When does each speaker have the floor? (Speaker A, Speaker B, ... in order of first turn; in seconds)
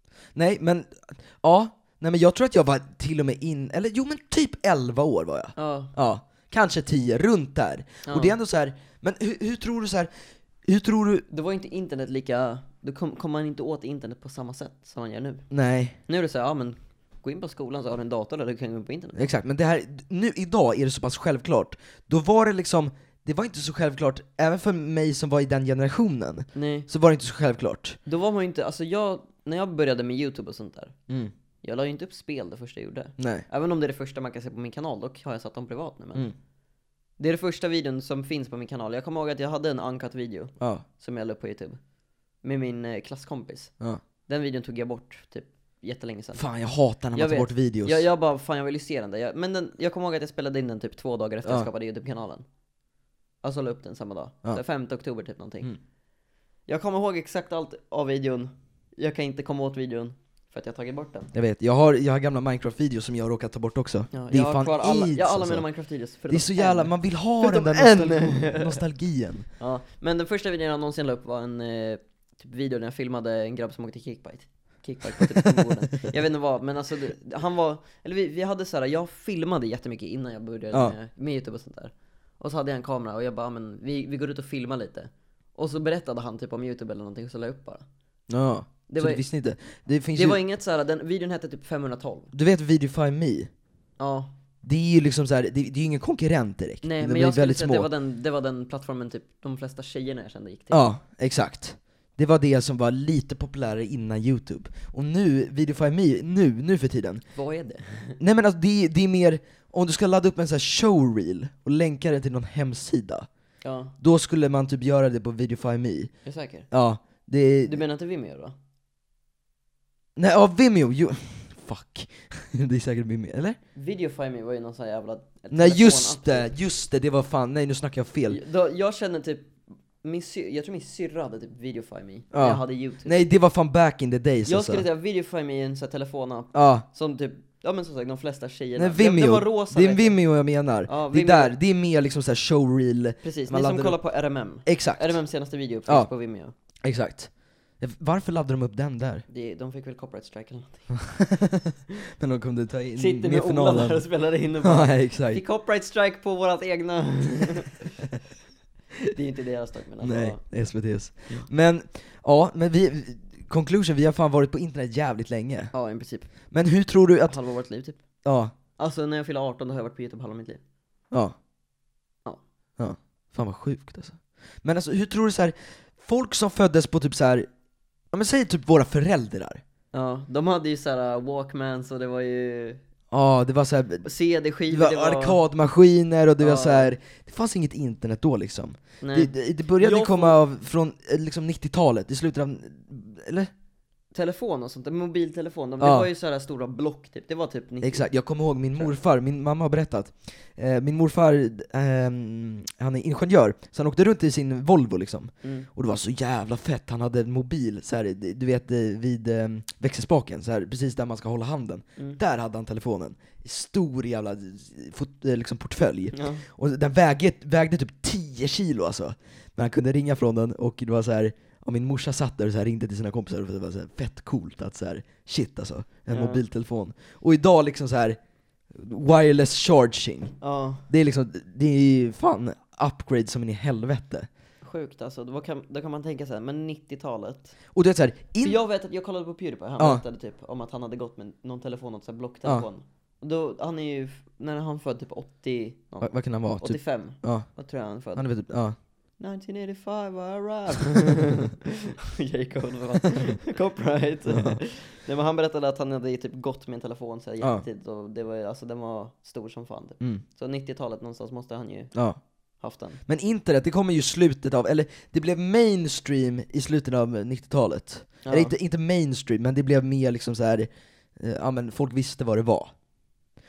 Speaker A: 0.3-10.1, 10.6-11.2, 15.5-16.0, 19.1-28.0, 33.2-33.4, 46.3-48.0, 61.3-65.7, 66.3-69.5, 88.3-90.4, 92.3-93.5, 94.6-97.9, 100.7-107.2, 108.2-113.3, 114.0-116.1, 116.7-117.8, 120.2-123.6, 125.5-128.4, 132.3-134.8, 136.5-136.8, 138.8-144.0, 144.6-145.2, 146.8-149.2, 151.1-154.1, 154.6-155.4, 160.0-165.7, 166.5-167.4, 168.2-168.5, 172.8-177.5, 178.1-179.6, 183.1-184.1, 184.7-193.5, 195.8-196.1, 197.8-228.2, 228.7-230.4, 230.9-234.3, 237.7-238.6, 246.0-248.8, 254.3-254.6, 261.9-262.2, 263.1-272.7
Speaker B: 5.5-5.9, 8.1-8.3, 11.3-15.4, 16.1-19.3, 26.5-26.9, 28.0-30.9, 31.6-36.3, 37.2-41.8, 42.4-43.7, 44.2-46.4, 47.1-52.4, 53.4-55.7, 56.7-61.3, 64.1-68.8, 69.6-87.8, 88.9-89.2, 90.1-92.3, 94.0-94.3, 96.8-100.8, 107.3-108.2, 113.6-113.9, 116.2-116.7, 117.6-118.5, 123.7-126.5, 128.3-133.2, 134.4-140.2, 140.8-141.5, 143.2-146.5, 149.3-151.1, 152.9-158.0, 159.1-160.4, 165.7-166.3, 167.3-168.0, 168.8-170.6, 179.9-182.8, 184.0-185.4, 186.4-186.9, 189.0-190.4, 194.1-198.1, 205.4-205.7, 216.1-216.4, 226.1-226.4, 230.4-230.8, 234.6-237.5, 238.4-261.9, 262.6-263.0, 268.2-268.5